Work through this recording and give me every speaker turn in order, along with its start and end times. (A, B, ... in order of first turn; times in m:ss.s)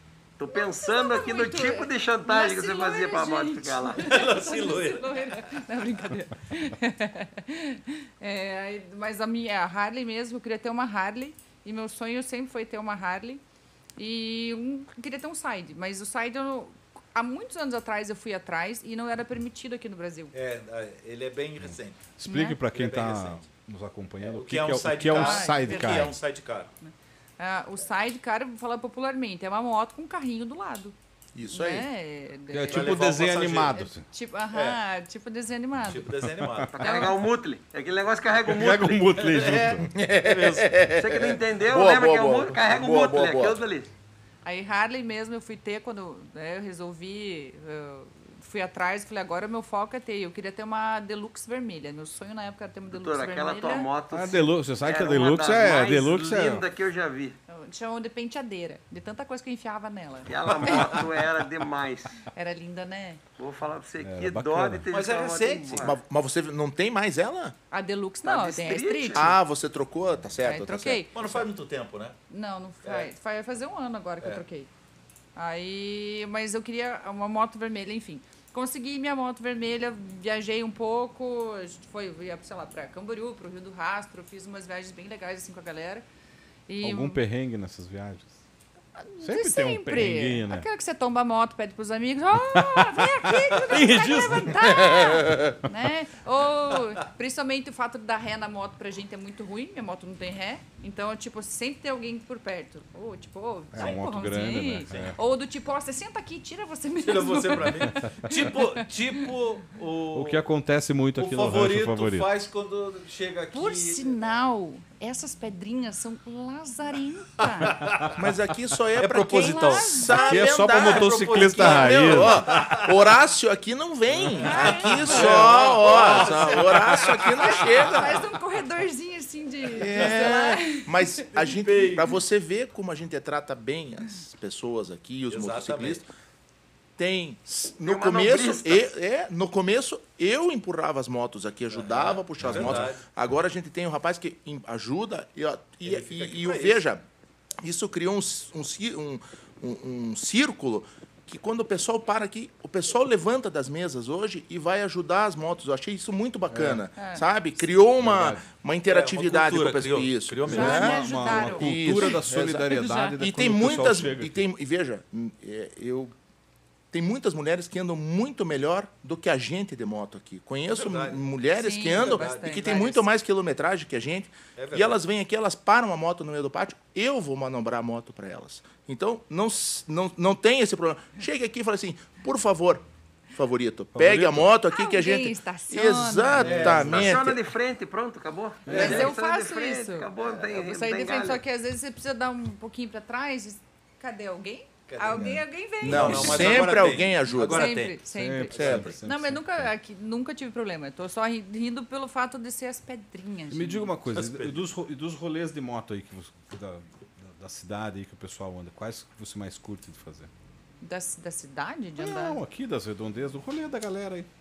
0:00.4-0:04.2 A
0:00.5-0:13.4 B
0:04.0-0:05.1 C
0:14.0-0:20.4 B
0:20.3-0:22.1 C
0:22.2-0:26.2 D
0:22.3-0:22.6 B
0:22.7-0:23.5 C
0:24.2-0:26.7 C
0:25.1-0:26.2 B
0:26.8-0:31.0 B
0:31.4-0:31.9 E
0:31.5-0:33.1 B
0:32.5-0:34.1 D
0:32.7-0:33.8 C
0:33.8-0:36.1 B
0:34.5-0:34.8 C
0:35.8-0:36.8 C
0:36.2-0:36.8 D
0:36.7-0:39.0 A
0:36.8-0:37.2 B
0:38.5-0:39.9 D
0:39.2-0:40.7 C
0:39.9-0:43.6 E
0:41.0-0:43.9 A
0:44.4-0:53.9 B
0:52.9-0:57.4 A
0:54.1-0:56.6 D
0:57.5-1:01.0 B
1:00.3-1:02.1 A
1:02.3-1:03.2 B
1:03.4-1:06.0 A
1:04.0-1:04.8 D
1:04.9-1:05.9 C
1:05.8-1:07.6 E
1:07.7-1:09.4 B
1:08.2-1:09.3 A
1:09.2-1:11.2 E
1:10.4-1:11.4 B
1:11.1-1:12.2 C
1:12.3-1:14.7 B
1:12.8-1:13.1 C
1:15.4-1:26.0 B
1:26.7-1:27.2 B
1:26.8-1:28.3 D
1:29.0-1:49.3 B
1:29.2-1:30.7 D
1:32.5-1:35.2 D
1:43.7-1:45.2 D
1:47.0-1:50.4 C
1:50.1-1:52.3 D
1:51.2-1:54.1 C
1:53.5-1:57.8 B
1:57.8-1:58.2 D
1:58.1-2:08.2 E
1:59.0-2:00.1 C
1:59.2-2:00.6 B
2:00.1-2:02.9 D
2:00.7-2:02.9 C
2:04.3-2:07.2 C
2:04.4-2:05.4 B
2:07.2-2:11.2 B
2:09.8-2:16.1 E
2:11.4-2:12.2 C
2:15.3-2:16.0 C
2:17.0-2:27.0 E
2:17.8-2:18.9 A
2:21.7-2:23.0 C
2:22.4-2:22.9 D
2:25.8-2:26.8 C
2:27.6-2:46.1 E
2:36.5-2:36.8 D
2:37.0-2:37.2 B
2:38.0-2:38.5 D
2:38.9-2:41.1 C
2:40.5-2:42.2 B
2:40.5-2:44.4 D
2:42.7-2:43.2 B
2:46.9-3:07.4 E
2:50.7-2:51.3 C
2:51.5-2:53.0 B
2:51.9-2:53.0 C
2:54.6-2:55.0 C
3:03.9-3:04.5 D
3:04.7-3:06.8 B
3:06.4-3:07.2 C
3:06.8-3:11.4 A
3:08.7-3:09.1 D
3:08.7-3:23.9 B
3:14.9-3:19.0 C
3:15.8-3:17.9 E
3:16.1-3:16.5 D
3:18.1-3:19.7 D
3:18.5-3:18.8 E
3:23.5-3:30.3 D
3:24.1-3:24.7 C
3:30.8-3:32.4 B
3:32.0-3:34.3 D